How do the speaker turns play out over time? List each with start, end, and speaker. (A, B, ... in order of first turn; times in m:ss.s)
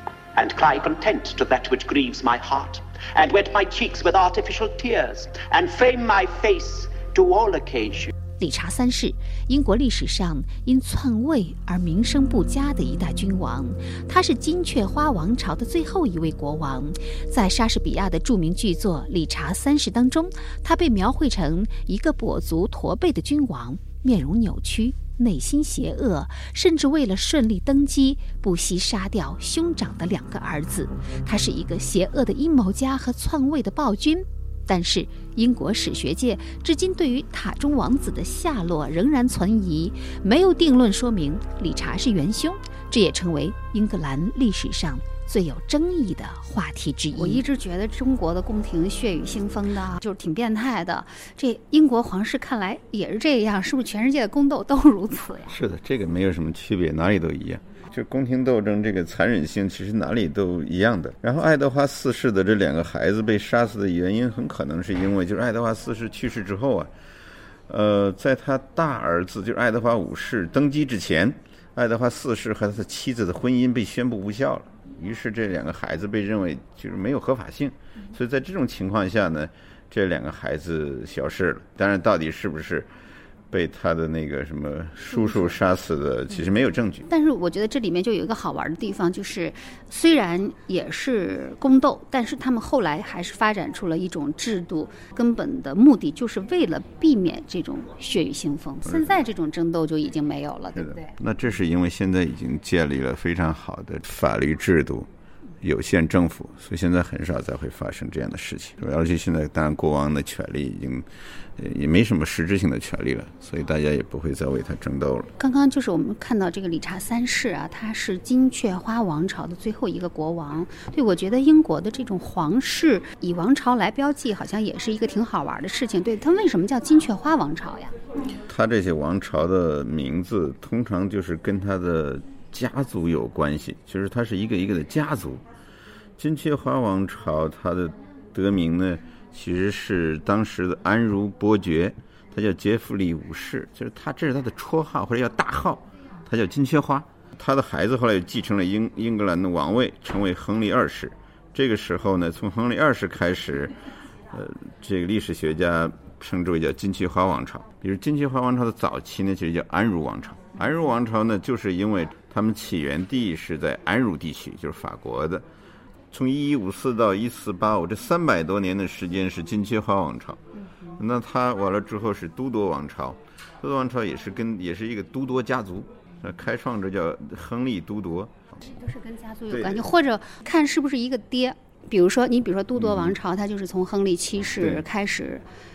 0:00.4-0:08.1 A
0:08.4-0:47.4 B
0:47.1-0:55.6 C
0:55.5-1:06.9 D
1:07.7-1:22.9 D
1:23.5-1:27.1 D
1:25.1-1:25.5 C
1:27.1-1:41.1 C
1:38.9-1:39.2 D
1:40.8-1:45.1 D
1:45.6-1:55.3 D
1:55.4-2:07.9 C
2:08.5-2:15.4 D
2:16.2-2:33.8 D
2:34.3-2:45.4 D
2:46.1-2:50.4 D
2:51.0-2:58.5 D
2:58.7-3:05.4 C
2:59.5-2:59.9 D
3:02.8-3:03.2 D
3:04.6-3:04.8 D